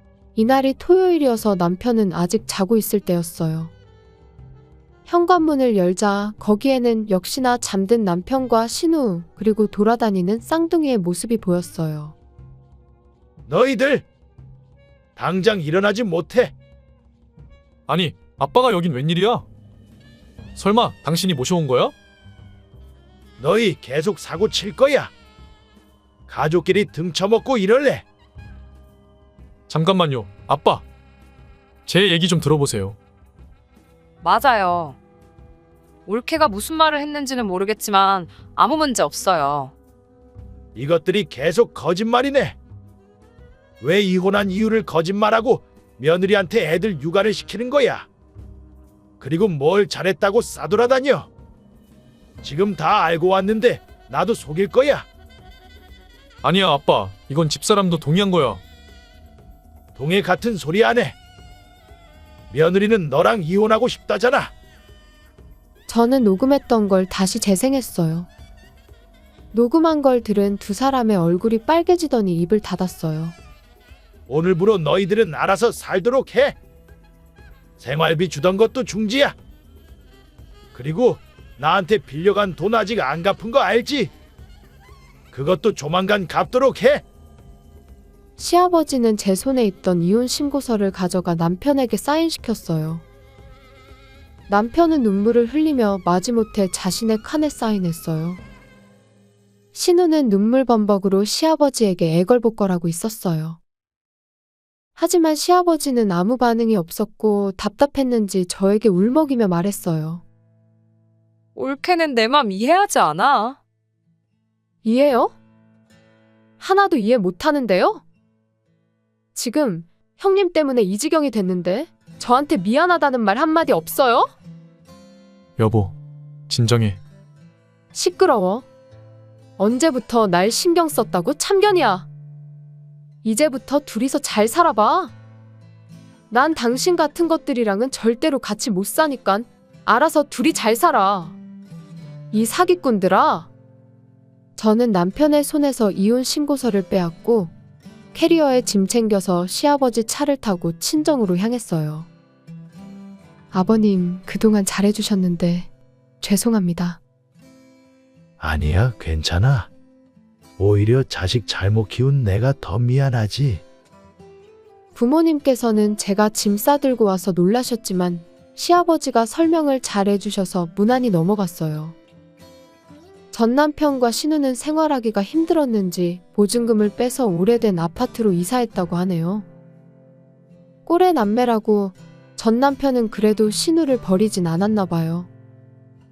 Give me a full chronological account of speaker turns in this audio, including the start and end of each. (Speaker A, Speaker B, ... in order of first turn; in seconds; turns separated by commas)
Speaker A: 0.4-3.7, Speaker A: 5.1-12.2, Speaker B: 13.5-14.1, Speaker B: 15.2-16.5, Speaker C: 17.9-19.5, Speaker C: 20.5-21.9, Speaker B: 23.4-25.1, Speaker B: 26.3-28.0, Speaker C: 29.7-30.9, Speaker C: 31.9-33.0, Speaker D: 34.2-35.0, Speaker D: 36.0-39.7, Speaker B: 40.8-42.6, Speaker B: 43.8-48.1, Speaker B: 49.2-51.3, Speaker B: 52.4-55.1, Speaker C: 56.4-58.6, Speaker B: 60.0-61.2, Speaker B: 62.5-64.5, Speaker A: 65.9-68.3, Speaker A: 69.5-73.4, Speaker B: 74.3-76.6, Speaker B: 77.8-79.4, Speaker B: 80.7-84.1, Speaker B: 85.3-87.0, Speaker A: 88.4-93.0, Speaker A: 94.5-98.4, Speaker A: 99.7-103.6, Speaker A: 105.0-110.2, Speaker D: 111.5-113.6, Speaker A: 114.8-115.4, Speaker A: 116.6-118.0, Speaker A: 119.3-124.3, Speaker C: 125.6-126.0, Speaker C: 126.5-127.0, Speaker A: 127.9-128.7, Speaker A: 129.6-132.1, Speaker A: 133.2-135.1, Speaker A: 136.3-141.4, Speaker A: 142.3-143.5, Speaker A: 144.6-147.5, Speaker A: 148.1-152.1, Speaker A: 153.5-155.7, Speaker A: 156.2-157.0, Speaker B: 158.4-159.7, Speaker B: 160.6-163.6, Speaker A: 164.9-172.0, Speaker A: 173.3-179.5, Speaker A: 180.9-185.3